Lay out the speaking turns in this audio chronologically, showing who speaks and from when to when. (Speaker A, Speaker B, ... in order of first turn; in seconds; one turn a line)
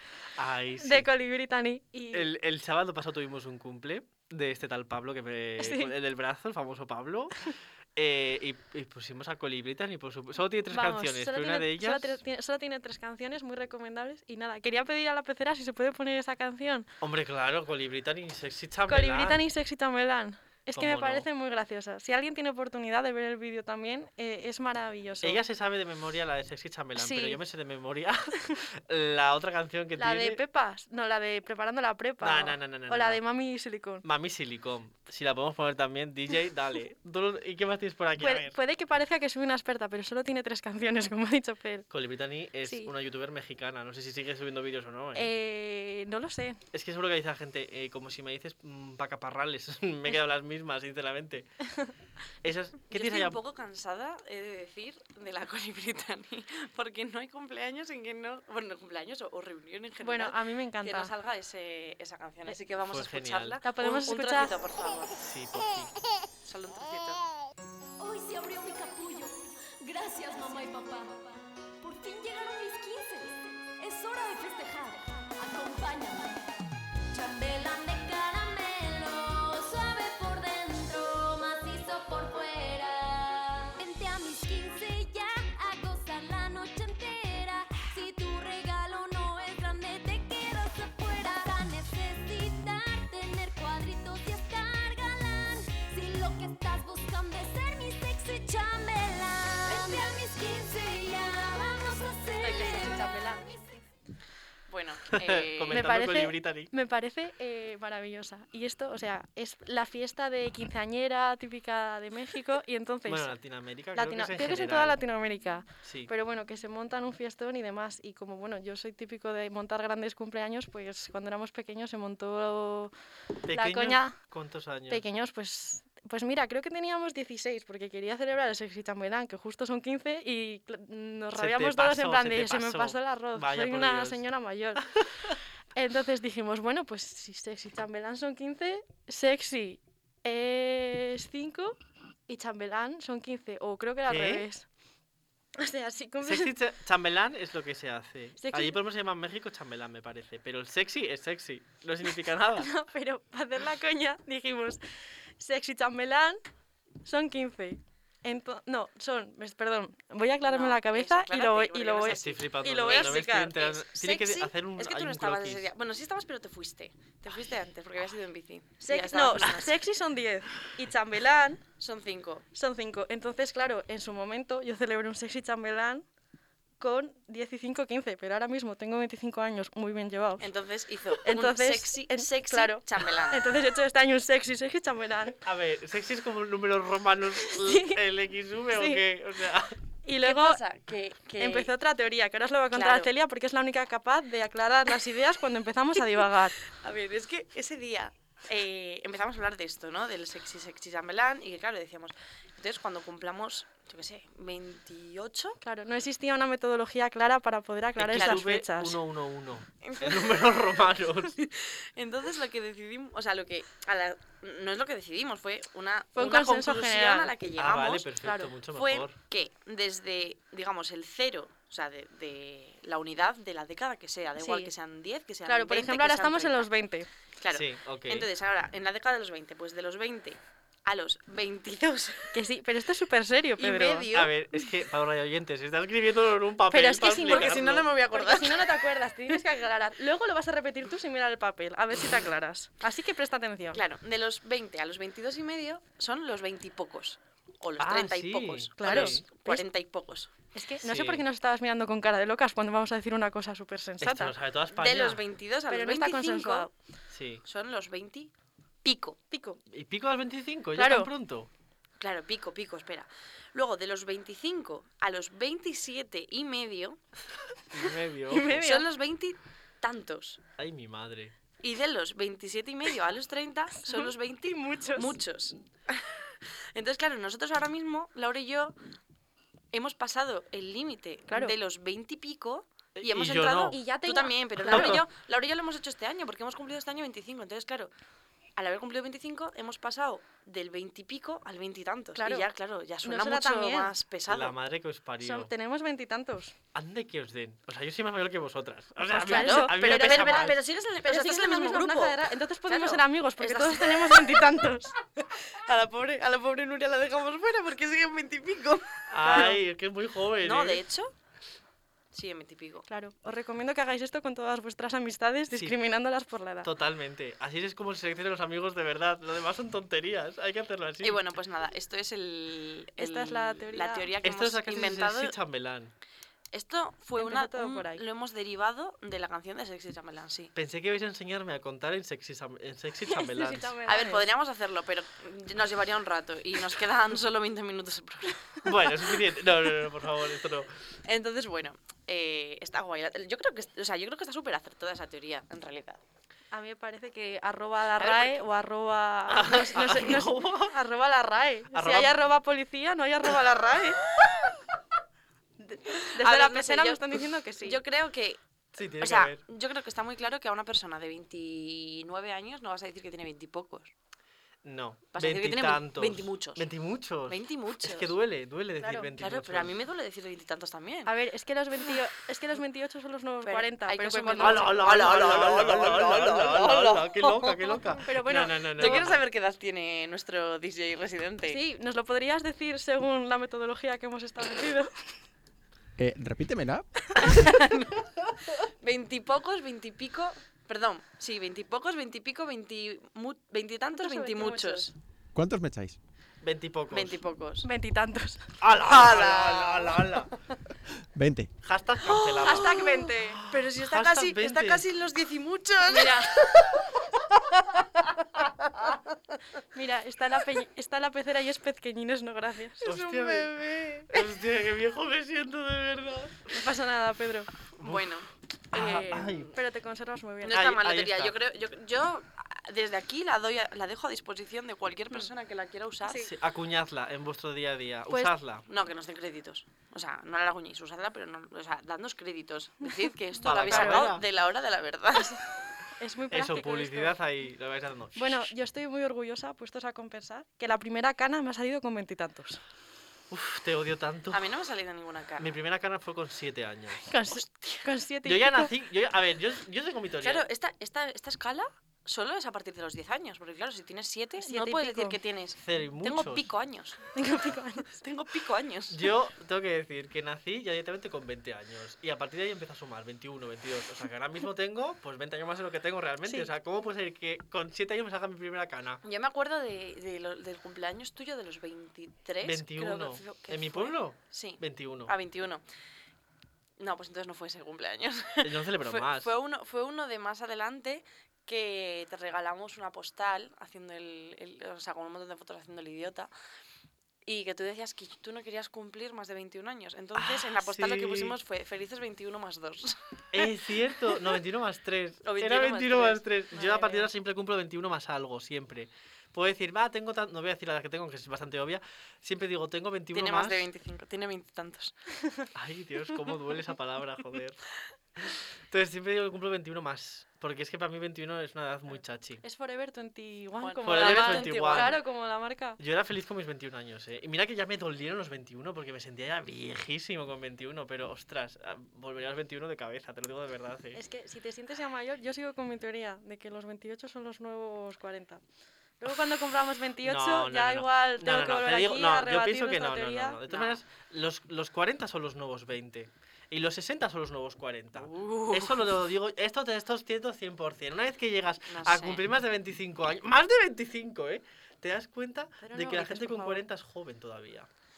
Speaker A: 0.4-1.1
Speaker B: 0.8-2.3
Speaker A: 2.1-12.2
Speaker B: 5.6-5.9
Speaker B: 10.7-16.9
Speaker A: 17.0-19.4
Speaker B: 18.9-25.4
Speaker A: 20.8-21.3
Speaker A: 25.2-30.4
Speaker B: 27.0-27.4
Speaker B: 30.0-34.0
Speaker A: 32.2-33.2
Speaker A: 34.0-38.6
Speaker B: 38.2-41.9
Speaker A: 41.9-45.3
Speaker B: 42.6-42.9
Speaker B: 45.1-46.6
Speaker A: 46.7-51.5
Speaker A: 52.4-53.4
Speaker C: 52.9-65.2
Speaker B: 60.0-61.1
Speaker A: 62.9-63.6
Speaker B: 63.6-64.6
Speaker A: 65.1-65.9
Speaker C: 66.4-67.2
Speaker D: 68.0-76.5
Speaker D: 77.1-103.6
Speaker B: 102.4-103.6
Speaker C: 104.7-105.9
Speaker A: 105.1-106.7
Speaker B: 105.7-113.3
Speaker A: 113.1-115.0
Speaker B: 114.0-122.9
Speaker A: 115.8-116.1
Speaker A: 123.5-125.0
Speaker B: 123.5-124.2
Speaker B: 124.9-134.9
Speaker A: 131.3-134.2
Speaker A: 135.0-135.3
Speaker B: 135.8-141.8
Speaker B: 142.3-144.7
Speaker A: 144.1-144.5
Speaker B: 145.6-146.5
Speaker A: 146.2-152.7
Speaker B: 148.4-148.8
Speaker B: 152.6-154.8
Speaker B: 155.4-156.4
Speaker B: 157.0-163.6
Speaker C: 160.4-169.8
Speaker A: 162.1-165.7
Speaker B: 168.8-171.6
Speaker C: 171.8-172.4
Speaker B: 172.6-176.0
Speaker B: 176.8-180.5
Speaker C: 180.4-183.5
Speaker B: 181.2-185.4
Speaker A: 185.4-189.8
Speaker B: 187.4-188.0
Speaker B: 188.7-189.0
Speaker B: 190.1-190.6
Speaker C: 190.2-191.7
Speaker B: 191.4-196.6
Speaker C: 192.7-193.1
Speaker C: 196.6-205.6
Speaker B: 205.6-209.0
Speaker A: 208.0-211.3
Speaker C: 208.1-208.4
Speaker C: 209.8-210.7
Speaker C: 211.3-218.1
Speaker B: 216.2-217.3
Speaker A: 217.6-219.2
Speaker B: 218.2-218.5
Speaker C: 218.7-226.7
Speaker B: 224.4-224.7
Speaker B: 225.5-227.1
Speaker C: 227.4-232.4
Speaker A: 227.5-228.3
Speaker B: 232.3-234.1
Speaker C: 233.6-234.3
Speaker A: 234.1-237.9
Speaker B: 236.7-243.8
Speaker C: 237.2-238.8
Speaker C: 243.7-250.3
Speaker A: 247.8-249.2
Speaker B: 248.8-249.6
Speaker B: 250.5-254.3
Speaker A: 250.8-251.2
Speaker A: 254.0-255.2
Speaker C: 254.7-256.7
Speaker B: 255.7-256.7
Speaker A: 257.1-257.4
Speaker C: 257.4-258.3
Speaker C: 258.8-259.2
Speaker B: 259.3-259.6
Speaker A: 259.7-261.5
Speaker B: 260.8-261.1
Speaker C: 262.0-267.0
Speaker A: 267.7-268.7
Speaker B: 268.3-268.9
Speaker C: 268.6-270.4
Speaker A: 270.6-271.4
Speaker C: 271.6-276.2
Speaker B: 273.9-275.2
Speaker C: 276.7-278.8
Speaker C: 279.7-287.9
Speaker A: 282.9-283.8
Speaker B: 283.7-285.0
Speaker A: 284.7-285.0
Speaker C: 288.6-294.6
Speaker B: 292.2-292.5
Speaker B: 293.0-293.9
Speaker A: 294.3-295.5
Speaker B: 295.2-296.6
Speaker A: 296.7-300.6
Speaker B: 299.1-304.9
Speaker C: 299.2-304.4
Speaker C: 305.3-309.6
Speaker A: 309.1-310.8
Speaker B: 309.3-309.6
Speaker C: 310.4-311.1
Speaker C: 312.1-312.9
Speaker B: 312.9-316.7
Speaker A: 315.5-315.8
Speaker A: 316.6-321.2
Speaker C: 321.0-325.4
Speaker B: 323.0-324.1
Speaker A: 324.2-325.9
Speaker C: 326.5-330.5
Speaker B: 327.2-328.0
Speaker A: 330.6-333.7
Speaker B: 333.1-334.3
Speaker C: 333.9-338.5
Speaker A: 338.6-340.7
Speaker C: 341.1-346.0
Speaker B: 346.5-354.0
Speaker C: 348.0-348.3
Speaker A: 349.3-350.8
Speaker A: 351.7-352.2
Speaker B: 355.6-357.8
Speaker C: 356.1-363.9
Speaker A: 358.7-359.4
Speaker A: 364.6-369.7
Speaker C: 365.1-366.7
Speaker C: 367.3-368.1
Speaker B: 368.8-369.1
Speaker C: 369.2-371.1
Speaker B: 371.1-374.8
Speaker C: 373.4-377.7
Speaker A: 374.4-379.2
Speaker B: 378.0-379.1
Speaker C: 378.8-381.6
Speaker B: 381.5-384.9
Speaker E: 386.0-387.5
Speaker C: 387.2-394.9
Speaker B: 393.9-394.9
Speaker E: 395.4-396.0
Speaker A: 396.4-397.2
Speaker C: 396.9-397.7
Speaker B: 397.6-398.5
Speaker A: 398.6-400.3
Speaker C: 398.8-400.4
Speaker E: 401.1-401.5
Speaker A: 401.6-404.9
Speaker C: 402.0-406.7
Speaker B: 402.4-403.4
Speaker B: 405.9-406.5
Speaker C: 408.4-409.0
Speaker B: 409.7-413.4
Speaker A: 412.8-416.6
Speaker C: 412.9-414.1
Speaker B: 416.5-417.5
Speaker A: 417.8-418.2
Speaker C: 417.8-419.5
Speaker A: 418.7-419.5
Speaker B: 418.7-420.6
Speaker C: 420.4-426.3
Speaker A: 420.5-421.4
Speaker A: 426.1-428.6
Speaker C: 428.7-435.4
Speaker A: 433.4-434.2
Speaker B: 433.6-434.1
Speaker B: 435.9-437.2
Speaker A: 436.3-438.5
Speaker B: 438.1-442.6
Speaker A: 443.3-444.5
Speaker C: 444.3-445.5
Speaker A: 445.4-447.0
Speaker B: 447.1-448.7
Speaker C: 447.3-447.9
Speaker A: 448.2-450.5
Speaker C: 450.2-457.2
Speaker B: 454.4-455.2
Speaker A: 455.6-456.5
Speaker B: 457.1-457.9
Speaker C: 457.8-459.1
Speaker A: 458.9-469.0
Speaker C: 469.0-475.6
Speaker A: 472.4-475.1
Speaker C: 476.8-486.3
Speaker A: 478.4-479.3
Speaker C: 487.3-493.2
Speaker A: 490.2-491.4
Speaker A: 493.3-503.7
Speaker C: 495.2-496.7
Speaker B: 496.6-497.1
Speaker C: 503.1-504.9
Speaker A: 505.6-507.6
Speaker A: 508.2-512.4
Speaker B: 512.4-515.8
Speaker C: 513.6-515.0
Speaker A: 513.9-515.0
Speaker A: 515.8-524.0
Speaker B: 524.0-528.4
Speaker B: 529.0-533.4
Speaker A: 530.0-547.7
Speaker C: 533.5-533.8
Speaker C: 538.0-538.9
Speaker C: 541.7-542.2
Speaker B: 545.6-546.6